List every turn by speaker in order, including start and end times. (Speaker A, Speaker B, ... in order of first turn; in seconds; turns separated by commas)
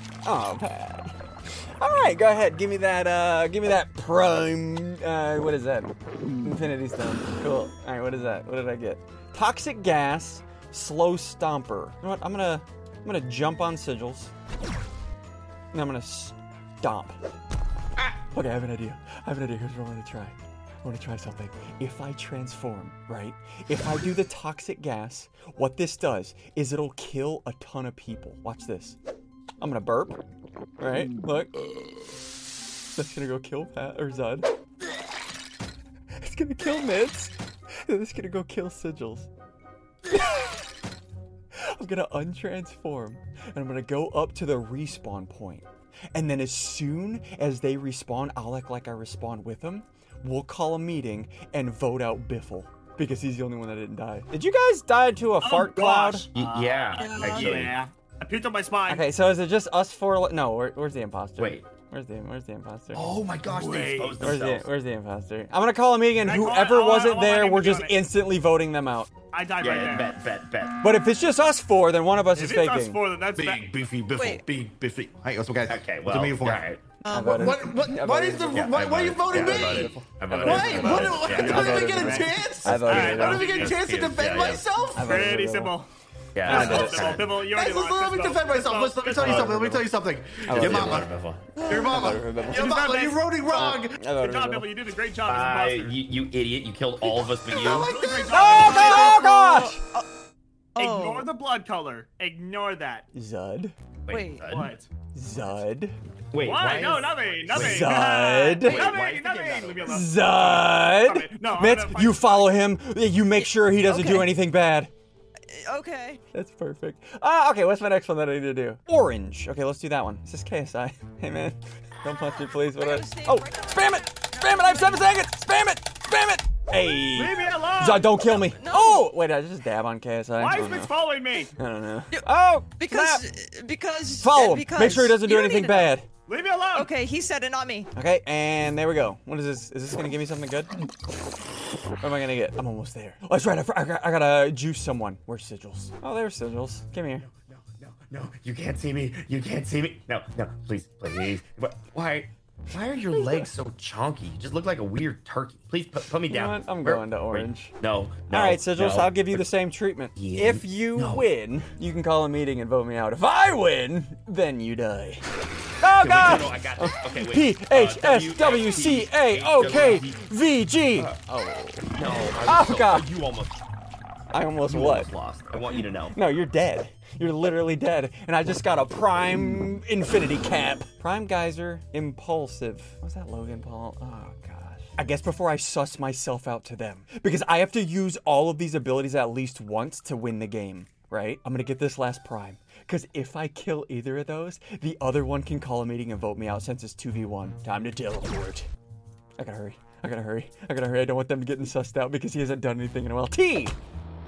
Speaker A: 0.2-1.1, Speaker A: 1.8-14.3, Speaker A: 15.7-17.2, Speaker A: 18.3-29.0, Speaker A: 29.6-30.2, Speaker A: 30.8-31.5, Speaker A: 33.0-34.5, Speaker A: 36.2-37.3, Speaker A: 37.9-39.3, Speaker A: 40.1-40.6, Speaker A: 41.6-56.3, Speaker B: 55.4-59.1, Speaker C: 56.4-57.7, Speaker D: 57.0-57.5, Speaker A: 58.9-63.2, Speaker C: 61.4-61.6, Speaker C: 62.9-64.7, Speaker B: 63.5-64.3, Speaker A: 64.2-69.1, Speaker B: 66.2-68.0, Speaker B: 69.3-70.1, Speaker C: 69.6-70.8, Speaker A: 70.8-73.0, Speaker B: 72.4-73.7, Speaker E: 73.4-76.7, Speaker D: 74.1-74.5, Speaker C: 75.7-76.8, Speaker D: 77.0-77.5, Speaker A: 77.1-80.1, Speaker E: 77.2-85.1, Speaker C: 78.5-81.8, Speaker B: 80.3-84.0, Speaker D: 80.6-81.0, Speaker A: 80.8-83.5, Speaker C: 82.6-84.7, Speaker A: 84.9-85.7, Speaker B: 85.0-85.9, Speaker C: 86.3-87.3, Speaker A: 86.5-87.2, Speaker B: 86.5-89.8, Speaker E: 87.5-91.1, Speaker C: 89.2-89.5, Speaker A: 89.2-89.8, Speaker A: 90.5-92.7, Speaker C: 90.5-91.5, Speaker D: 91.6-92.1, Speaker E: 91.7-94.0, Speaker B: 92.5-96.0, Speaker A: 93.5-94.7, Speaker C: 95.3-98.0, Speaker B: 97.6-99.2, Speaker E: 97.6-99.2, Speaker A: 98.3-99.8, Speaker D: 98.7-100.1, Speaker D: 100.8-101.3, Speaker B: 100.8-103.1, Speaker A: 103.1-103.7, Speaker C: 104.1-104.8, Speaker D: 104.1-104.5, Speaker B: 104.5-104.9, Speaker A: 105.1-106.0, Speaker C: 106.3-108.0, Speaker B: 106.4-112.6, Speaker A: 107.5-108.9, Speaker C: 108.6-110.1, Speaker A: 109.8-114.9, Speaker D: 113.4-114.3, Speaker D: 115.5-116.2, Speaker A: 116.3-131.0, Speaker D: 122.1-125.3, Speaker B: 127.1-128.1, Speaker D: 128.2-129.2, Speaker B: 130.4-131.5, Speaker A: 131.6-133.3, Speaker D: 132.1-135.9, Speaker A: 134.2-136.1, Speaker B: 136.3-136.9, Speaker D: 136.8-137.9, Speaker A: 137.9-140.8, Speaker A: 142.0-147.3, Speaker C: 147.2-159.4, Speaker A: 153.1-153.5, Speaker A: 156.3-157.7, Speaker A: 158.3-165.2, Speaker C: 160.2-161.3, Speaker A: 165.8-171.9, Speaker C: 166.0-170.2, Speaker C: 171.9-173.6, Speaker A: 172.4-173.1, Speaker A: 174.3-175.1, Speaker C: 174.7-176.2, Speaker A: 175.8-198.7, Speaker A: 199.4-203.8